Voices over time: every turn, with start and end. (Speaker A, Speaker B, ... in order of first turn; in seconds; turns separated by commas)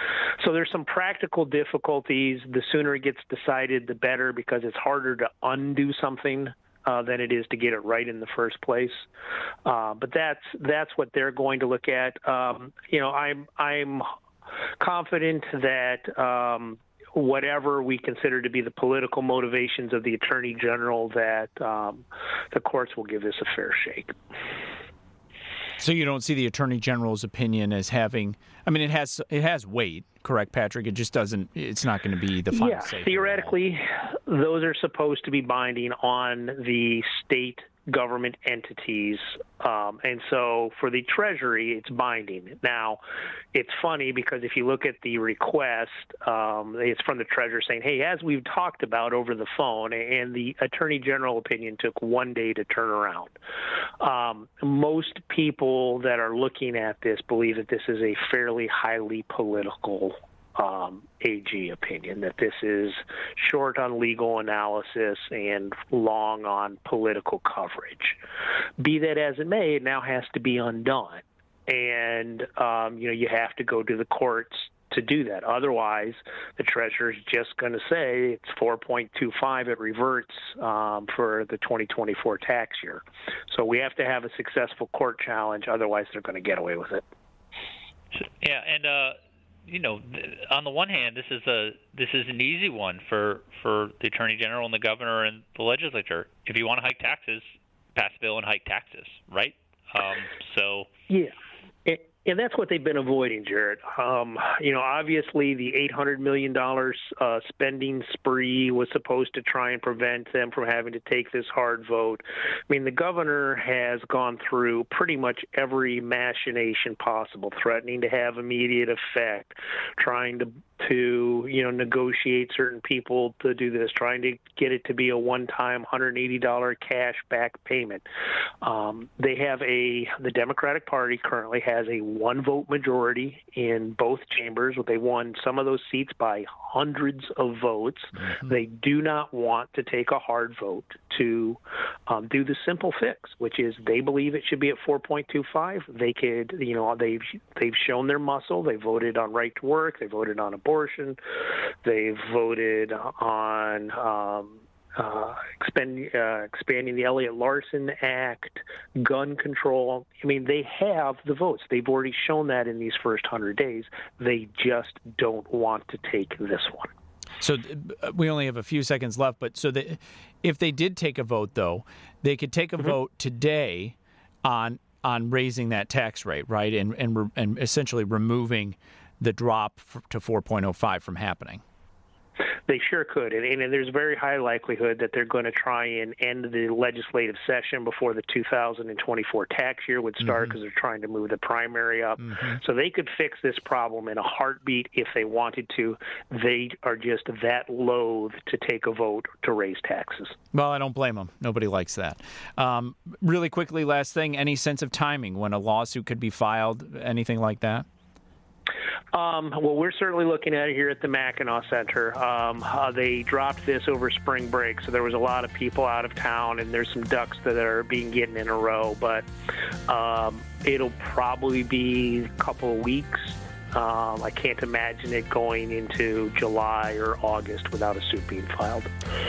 Speaker A: 0.4-9.1, Speaker A: 9.7-14.1, Speaker A: 14.8-24.1, Speaker B: 25.8-33.5, Speaker A: 32.5-43.0, Speaker A: 43.5-53.4, Speaker A: 54.0-68.2, Speaker A: 68.8-87.0, Speaker C: 88.1-89.2, Speaker C: 89.7-97.4, Speaker C: 98.0-100.9, Speaker A: 101.9-128.0, Speaker A: 128.6-151.2, Speaker A: 151.8-166.9, Speaker B: 167.4-181.6, Speaker A: 182.7-200.4, Speaker B: 200.5-207.9, Speaker A: 209.1-219.3, Speaker A: 219.9-228.9